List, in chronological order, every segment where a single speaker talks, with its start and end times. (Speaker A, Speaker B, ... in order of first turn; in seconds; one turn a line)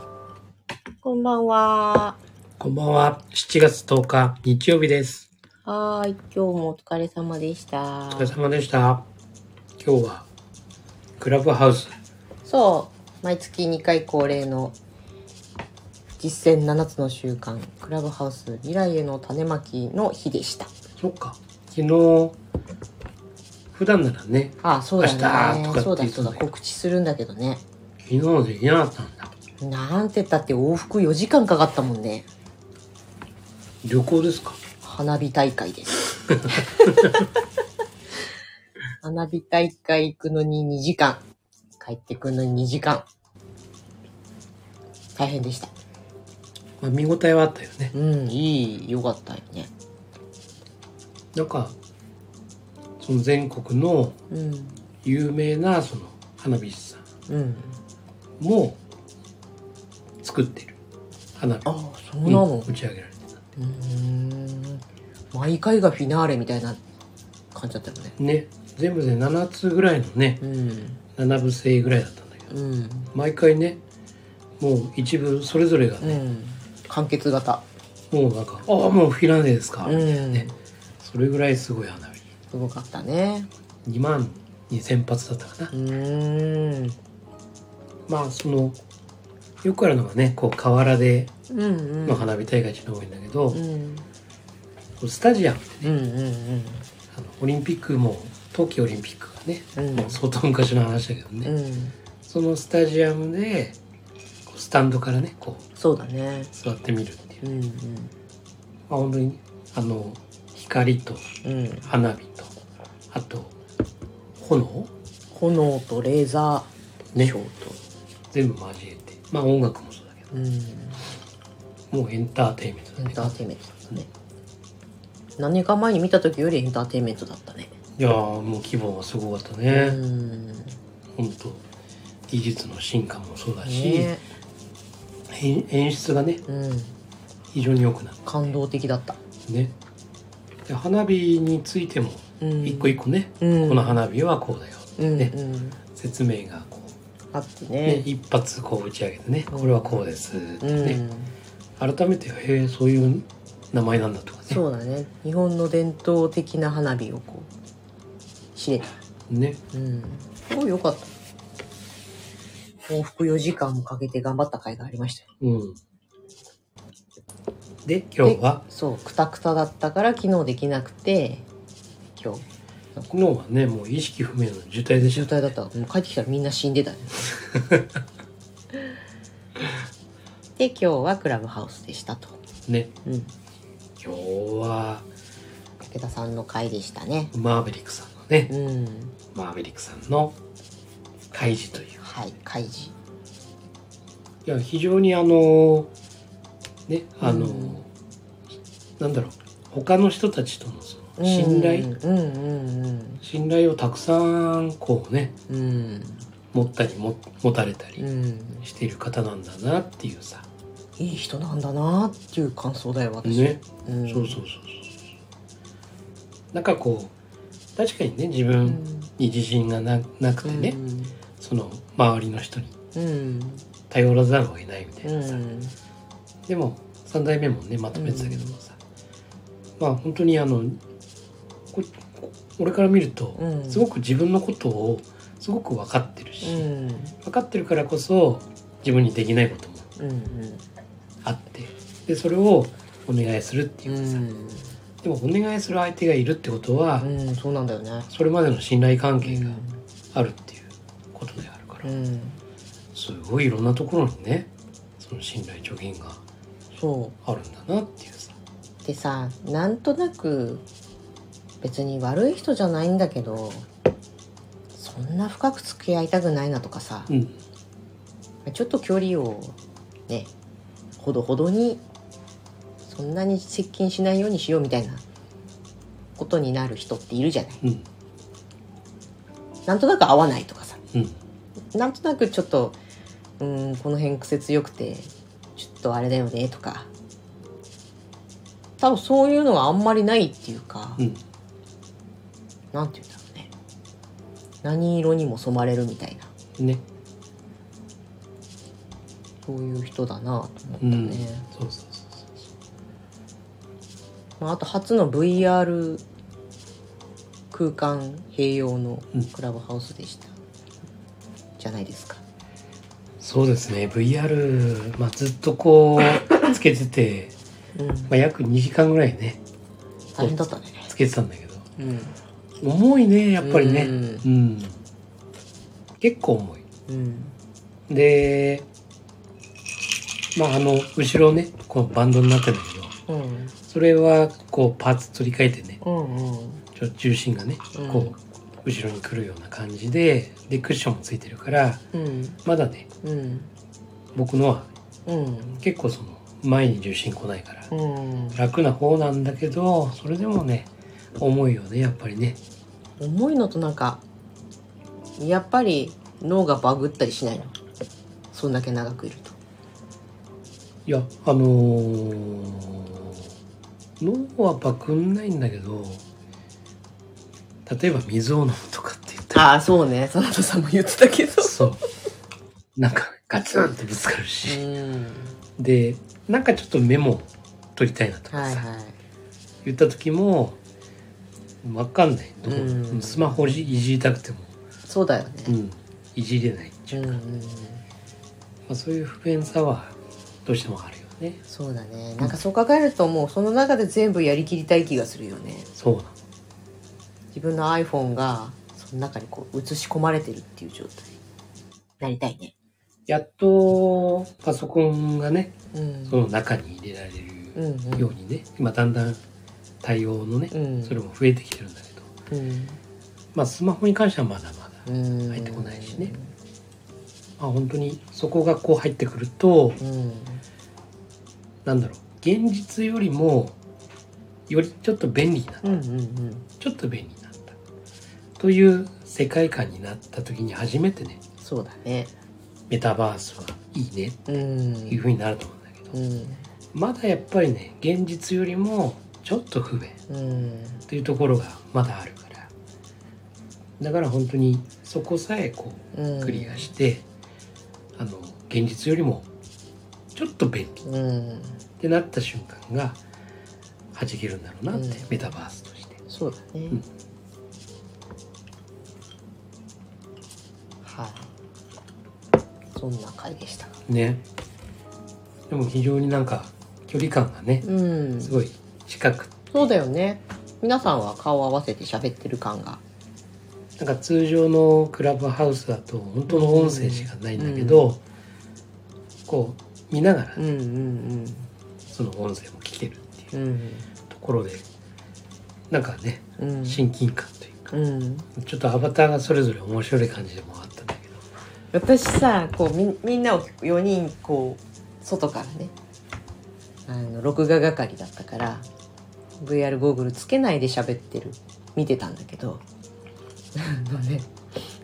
Speaker A: 1.0-2.2
Speaker B: 2.6-5.3
Speaker A: 5.6-8.3
Speaker B: 8.1-9.0
Speaker B: 9.8-10.2
Speaker B: 11.2-11.9
Speaker A: 12.4-14.8
Speaker A: 16.2-20.7
Speaker B: 21.0-22.4
Speaker B: 23.7-26.4
Speaker A: 24.6-27.6
Speaker B: 28.0-29.3
Speaker A: 29.6-32.3
Speaker B: 33.8-34.6
Speaker A: 34.8-37.0
Speaker B: 36.9-37.1
Speaker A: 39.0-41.2
Speaker A: 41.8-43.0
Speaker A: 45.1-45.7
Speaker B: 46.8-47.9
Speaker A: 47.9-49.7
Speaker B: 51.3-51.8
Speaker B: 53.0-54.2
Speaker A: 54.3-54.8
Speaker B: 55.0-57.0
Speaker A: 57.3-57.8
Speaker B: 58.4-58.8
Speaker B: 60.2-60.8
Speaker B: 61.4-61.6
Speaker A: 61.6-62.7
Speaker B: 62.2-63.4
Speaker A: 63.6-66.8
Speaker A: 67.5-68.2
Speaker B: 68.2-70.4
Speaker A: 70.4-71.0
Speaker B: 71.2-72.5
Speaker A: 72.5-73.1
Speaker B: 73.1-73.8
Speaker B: 74.6-76.2
Speaker A: 76.0-77.6
Speaker B: 78.1-82.2
Speaker A: 79.8-80.5
Speaker A: 82.5-83.5
Speaker B: 83.8-85.7
Speaker A: 85.7-87.0
Speaker B: 88.1-88.8
Speaker B: 89.6-91.3
Speaker A: 91.5-92.3
Speaker B: 92.0-93.6
Speaker A: 93.5-94.0
Speaker B: 95.0-95.9
Speaker A: 95.8-96.8
Speaker B: 97.1-101.5
Speaker A: 99.8-100.2
Speaker A: 101.4-101.9
Speaker B: 102.2-103.8
Speaker B: 104.5-105.7
Speaker A: 105.8-106.5
Speaker B: 106.5-107.4
Speaker A: 107.4-108.1
Speaker B: 108.9-111.3
Speaker A: 111.4-111.9
Speaker B: 111.8-112.5
Speaker B: 113.1-113.5
Speaker B: 114.4-114.9
Speaker A: 115.3-117.8
Speaker B: 118.3-120.3
Speaker A: 120.3-121.1
Speaker B: 121.9-124.0
Speaker A: 123.0-124.1
Speaker A: 125.4-127.7
Speaker B: 128.0-130.0
Speaker A: 129.7-130.8
Speaker B: 131.2-131.6
Speaker B: 132.3-134.1
Speaker A: 133.6-134.2
Speaker B: 135.3-136.4
Speaker A: 136.5-136.9
Speaker B: 137.5-138.5
Speaker A: 138.2-139.2
Speaker B: 139.5-139.7
Speaker B: 140.7-145.3
Speaker A: 142.4-144.0
Speaker A: 145.0-145.8
Speaker B: 145.9-147.0
Speaker A: 147.3-148.1
Speaker B: 147.8-151.0
Speaker A: 149.5-150.0
Speaker A: 150.6-151.3
Speaker B: 151.8-154.6
Speaker A: 154.5-157.5
Speaker A: 158.6-159.0
Speaker B: 159.3-159.6
Speaker A: 159.7-161.1
Speaker A: 162.9-165.2
Speaker B: 165.4-165.8
Speaker B: 167.8-168.6
Speaker A: 168.2-171.4
Speaker A: 172.2-172.4
Speaker B: 173.1-175.5
Speaker A: 175.0-177.3
Speaker B: 177.4-178.0
Speaker A: 180.6-182.4
Speaker B: 182.7-182.9
Speaker A: 183.0-183.3
Speaker B: 184.0-185.1
Speaker A: 185.8-187.3
Speaker B: 187.3-188.5
Speaker A: 188.5-189.2
Speaker B: 189.3-190.3
Speaker B: 191.3-192.0
Speaker A: 191.9-192.9
Speaker B: 194.4-195.9
Speaker B: 196.9-197.9
Speaker A: 197.2-197.8
Speaker B: 199.0-202.0
Speaker A: 201.2-203.2
Speaker B: 203.2-205.3
Speaker A: 205.5-206.3
Speaker B: 206.5-208.0
Speaker A: 208.0-208.7
Speaker B: 208.6-210.5
Speaker A: 211.0-214.4
Speaker B: 213.2-215.1
Speaker B: 216.5-217.1
Speaker B: 217.8-220.8
Speaker A: 218.6-219.1
Speaker A: 220.4-221.2
Speaker B: 221.4-222.7
Speaker A: 222.9-223.6
Speaker B: 223.9-225.4
Speaker A: 225.0-225.7
Speaker B: 226.4-228.8
Speaker A: 227.9-228.6
Speaker B: 229.8-230.8
Speaker B: 231.7-236.7
Speaker A: 233.4-233.8
Speaker A: 236.4-237.1
Speaker B: 237.2-239.9
Speaker A: 240.0-240.6
Speaker B: 241.2-244.2
Speaker A: 243.9-244.7
Speaker B: 245.0-247.1
Speaker A: 247.0-248.1
Speaker B: 248.1-249.6
Speaker A: 249.2-249.8
Speaker B: 250.1-251.9
Speaker A: 251.8-252.4
Speaker B: 252.9-256.2
Speaker A: 256.7-257.1
Speaker B: 257.2-258.4
Speaker A: 258.8-260.6
Speaker A: 261.6-263.7
Speaker A: 264.8-267.1
Speaker B: 267.1-267.4
Speaker A: 268.4-269.6
Speaker A: 271.0-271.8
Speaker A: 272.9-275.0
Speaker A: 276.2-277.6
Speaker A: 279.6-280.8
Speaker B: 280.9-281.2
Speaker A: 281.7-282.8
Speaker A: 283.4-286.9
Speaker A: 288.8-291.0
Speaker A: 292.7-293.5
Speaker A: 294.6-296.3
Speaker B: 296.6-296.8
Speaker A: 299.4-301.4
Speaker B: 300.8-302.5
Speaker A: 304.4-306.0
Speaker A: 307.5-310.3
Speaker A: 311.6-312.2
Speaker B: 313.2-317.3
Speaker A: 317.8-318.1
Speaker B: 318.1-319.4
Speaker A: 320.1-320.9
Speaker B: 320.2-321.6
Speaker A: 321.8-322.1
Speaker B: 322.6-324.8
Speaker A: 323.4-324.2
Speaker B: 326.0-326.6
Speaker A: 326.9-327.3
Speaker B: 327.9-328.6
Speaker B: 330.3-332.9
Speaker A: 333.1-333.5
Speaker B: 333.7-335.8
Speaker A: 335.8-336.6
Speaker B: 336.7-341.8
Speaker A: 337.7-338.1
Speaker A: 341.9-342.4
Speaker B: 342.4-342.9
Speaker A: 343.0-343.5
Speaker B: 344.1-344.7
Speaker A: 345.1-345.6
Speaker B: 345.6-347.7
Speaker A: 347.7-348.4
Speaker B: 348.3-352.4
Speaker A: 353.0-354.0
Speaker A: 355.2-357.5
Speaker A: 358.3-359.4
Speaker B: 360.9-363.3
Speaker B: 364.0-366.0
Speaker B: 367.6-369.5
Speaker A: 369.3-371.6
Speaker B: 371.4-371.8
Speaker B: 372.8-374.6
Speaker A: 374.4-375.3
Speaker B: 375.6-378.6
Speaker A: 378.3-378.9
Speaker B: 379.6-380.6
Speaker B: 381.6-384.5
Speaker A: 382.5-383.7
Speaker A: 384.9-385.6
Speaker B: 385.4-387.2
Speaker A: 386.9-387.8
Speaker B: 388.7-391.4
Speaker A: 391.5-395.7
Speaker B: 395.8-396.1
Speaker A: 397.3-401.1
Speaker A: 402.0-402.5
Speaker B: 403.1-405.5
Speaker A: 405.7-406.2
Speaker B: 406.1-409.2
Speaker A: 407.5-408.1
Speaker B: 409.8-412.1
Speaker A: 410.5-411.0
Speaker A: 412.3-412.8
Speaker B: 413.3-416.1
Speaker A: 414.9-416.3
Speaker B: 417.4-419.8
Speaker A: 419.8-420.4
Speaker B: 421.6-423.6
Speaker B: 424.5-425.8
Speaker A: 425.6-426.5
Speaker B: 426.6-427.6
Speaker B: 428.4-431.2
Speaker A: 431.4-432.1
Speaker B: 432.7-435.9
Speaker A: 434.3-435.0
Speaker A: 435.9-436.4
Speaker B: 436.7-440.0
Speaker A: 440.1-440.8
Speaker B: 440.9-442.5
Speaker B: 443.8-447.0
Speaker A: 445.9-446.7
Speaker B: 447.9-449.3
Speaker B: 450.1-450.8
Speaker A: 450.8-451.6
Speaker B: 451.8-453.0
Speaker B: 453.9-456.0
Speaker A: 454.7-455.1
Speaker A: 456.1-456.8
Speaker A: 460.8-461.3
Speaker A: 462.7-463.8
Speaker B: 463.9-464.2
Speaker B: 465.5-467.7
Speaker A: 467.6-468.4
Speaker B: 468.2-469.7
Speaker A: 469.5-472.8
Speaker B: 473.8-478.0
Speaker A: 476.3-477.8
Speaker B: 479.3-480.4
Speaker A: 480.4-481.5
Speaker B: 481.9-483.3
Speaker A: 483.3-483.9
Speaker B: 484.1-484.6
Speaker B: 485.7-487.7
Speaker A: 486.4-486.8
Speaker A: 487.7-488.3
Speaker B: 488.3-491.2
Speaker A: 491.7-495.7
Speaker A: 496.9-498.6
Speaker A: 499.4-502.6
Speaker A: 503.5-504.3